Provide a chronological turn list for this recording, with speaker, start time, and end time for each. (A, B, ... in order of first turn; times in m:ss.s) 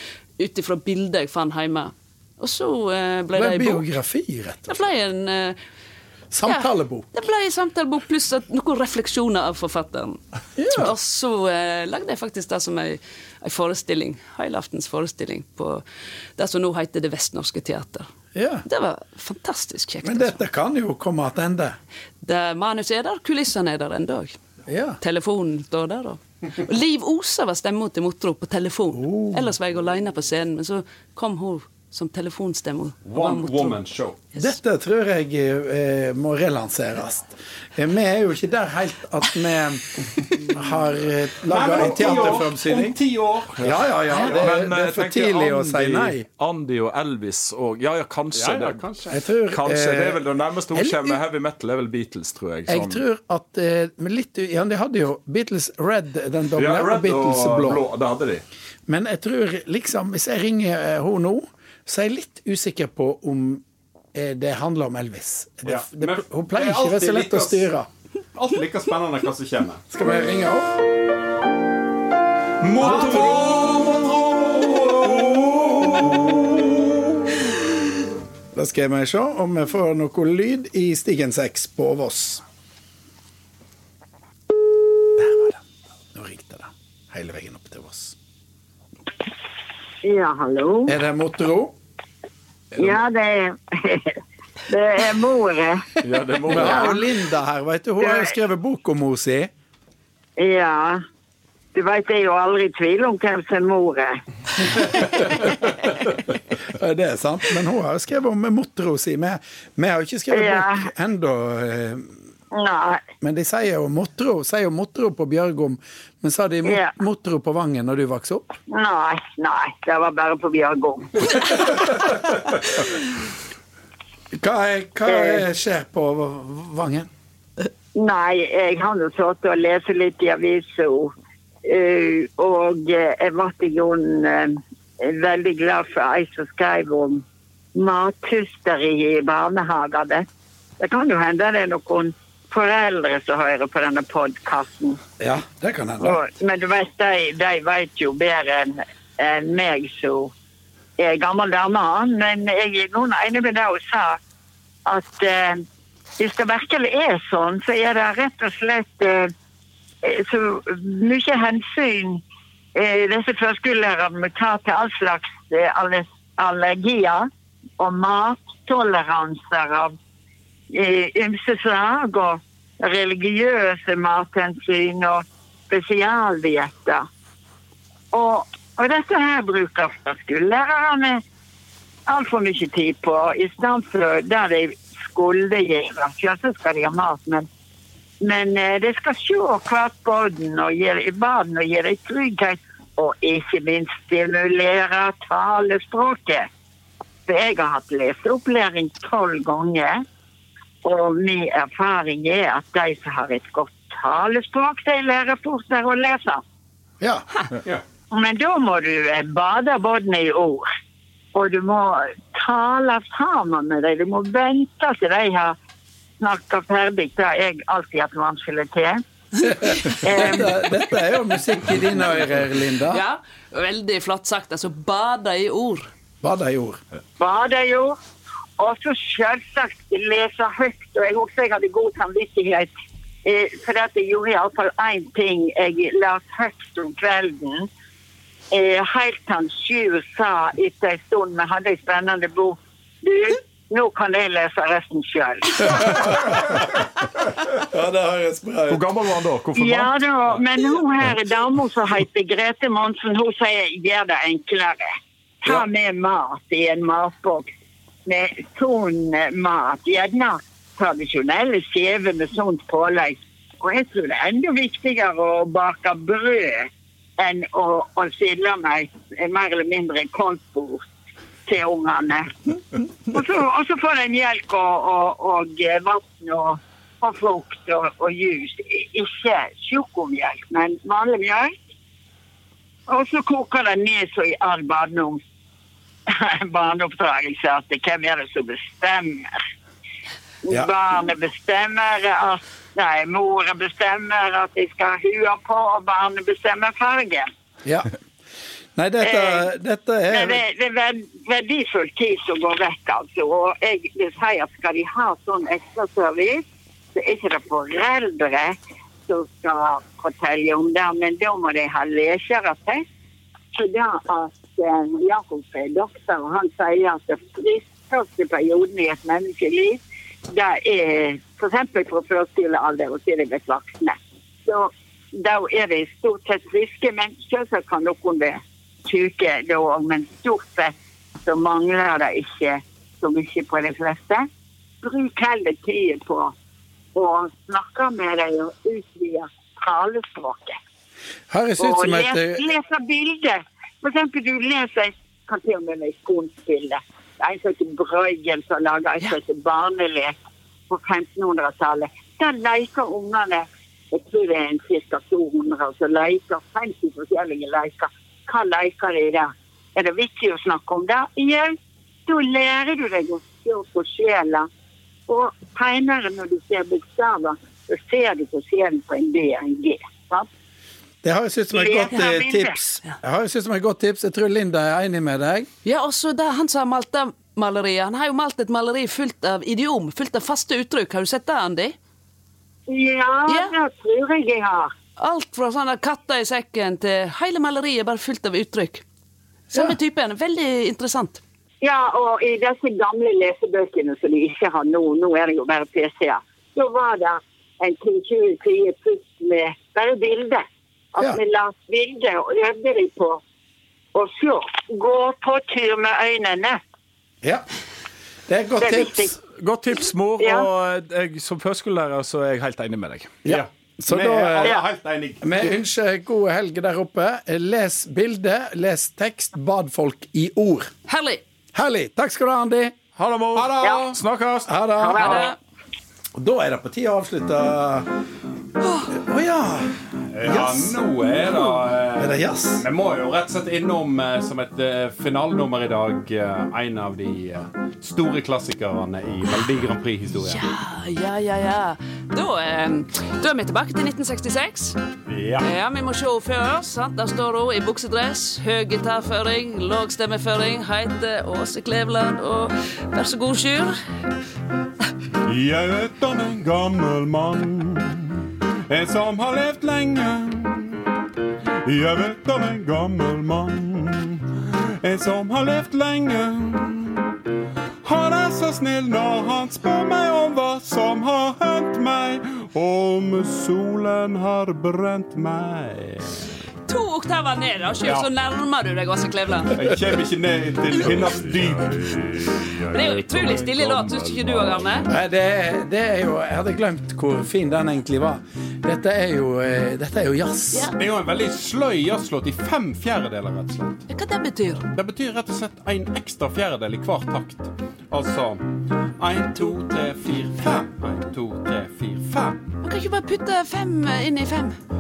0:00.4-0:03.9 A
0:03.3-0:04.8 B
0:04.7-0:05.6 A
0:06.3-0:07.1 B
0:06.4-0:15.8 A
0:10.6-0:10.9 B
0:16.4-0:18.1 A
0:18.3-0:18.6 B
0:18.6-0:20.4 A
0:20.0-0:21.8 B
0:22.2-0:24.3 A
0:24.6-0:25.0 B
0:25.0-0:33.8 A
0:28.9-0:29.5 B
0:33.1-0:34.2 C
0:34.4-0:43.0 B
0:41.5-0:44.4 C
0:43.6-0:46.2 B
0:43.6-0:48.8 D
0:48.3-0:49.2 C
0:49.1-0:51.2 B
0:49.5-0:53.0 D
0:52.7-0:57.8 B
0:56.6-0:58.4 D
0:58.9-1:03.6 B
1:04.1-1:07.9 B
1:05.6-1:07.6 C
1:08.3-1:09.8 C
1:09.9-1:10.7 B
1:12.6-1:16.4 C
1:12.8-1:13.4 B
1:18.5-1:22.4 B
1:25.2-1:28.1 B
1:30.0-1:31.0 E
1:30.9-1:31.7 B
1:32.8-1:35.8 E
1:36.0-1:37.0 D
1:36.5-1:39.5 B
1:40.4-1:41.0 E
1:41.7-1:44.2 E
1:46.6-1:52.1 B
1:50.3-1:50.9 E
1:52.5-1:53.1 E
1:53.2-1:58.6 B
1:56.6-1:56.9 E
1:58.7-2:01.9 E
2:04.3-2:07.1 B
2:05.1-2:05.4 E
2:07.9-2:20.2 E
2:20.8-2:25.0 E
2:25.2-2:26.2 B
2:26.0-2:30.3 E
2:31.0-2:34.2 E
2:34.8-2:35.6 E
2:36.2-2:39.3 E
2:40.0-2:42.2 E
2:42.7-2:50.0 E
2:50.7-2:57.0 E
2:58.1-3:01.2 E
3:02.1-3:07.5 E
3:08.2-3:16.5 E
3:17.3-3:20.0 E
3:20.8-3:26.4 E
3:27.0-3:27.2 B
3:28.1-3:30.7 E
3:31.3-3:35.6 E
3:36.2-3:39.0 E
3:39.5-3:43.0 B
3:39.6-3:40.7 E
3:42.9-3:45.9 A
3:46.2-3:46.8 B
3:47.2-3:48.0 E
3:48.6-3:52.7 E
3:53.2-3:57.7 E
3:58.5-4:05.9 E
4:05.7-4:06.7 B
4:07.5-4:08.9 B
4:08.7-4:10.4 D
4:09.5-4:14.9 E
4:15.4-4:17.5 E
4:18.0-4:30.9 E
4:31.5-4:32.5 E
4:33.1-4:41.6 E
4:42.9-4:45.2 E
4:46.1-4:49.3 E
4:50.4-4:57.3 E
4:57.6-4:57.9 B
4:58.8-5:00.4 B
4:59.0-4:59.4 E
5:00.1-5:06.4 E
5:06.9-5:08.6 E
5:09.1-5:12.8 E
5:13.5-5:34.3 E
5:34.8-5:36.3 E
5:36.9-5:40.6 E
5:41.3-5:42.4 B
5:41.6-5:50.2 E
5:50.7-6:01.6 E
6:02.1-6:04.5 E
6:05.1-6:10.3 E
6:11.0-6:15.5 B
6:11.5-6:12.5 E
6:15.6-6:21.8 A
6:22.7-6:24.7 E
6:23.3-6:23.5 A
6:25.0-6:28.8 A
6:29.5-6:31.2 A
6:31.6-6:43.2 E
6:43.9-6:46.6 E
6:48.3-6:49.1 B
6:48.6-6:49.1 E
6:49.3-6:53.2 D
6:50.2-6:50.5 E
6:53.2-6:54.5 B
6:53.2-6:55.3 C
6:55.2-7:00.7 B
7:00.9-7:01.2 A
7:01.5-7:03.6 B
7:03.3-7:04.6 D
7:03.3-7:04.0 C
7:03.6-7:03.9 E
7:04.4-7:05.2 B
7:04.8-7:05.3 E
7:05.0-7:05.4 A
7:06.1-7:07.9 B
7:08.9-7:10.8 B
7:10.1-7:20.4 C
7:12.0-7:12.6 B
7:20.2-7:24.8 A
7:25.1-7:25.5 C
7:25.4-7:33.7 A
7:35.2-7:38.1 C
7:38.7-7:40.8 C
7:41.6-7:47.1 C
7:47.8-7:56.3 C
7:56.7-7:59.7 A
7:59.5-8:02.3 C
8:00.7-8:01.2 A
8:02.6-8:04.9 A
8:03.1-8:03.7 D
8:04.9-8:10.7 B
8:10.7-8:13.8 C
8:13.9-8:14.7 A
8:14.7-8:18.4 C
8:19.0-8:22.4 C
8:22.6-8:24.6 A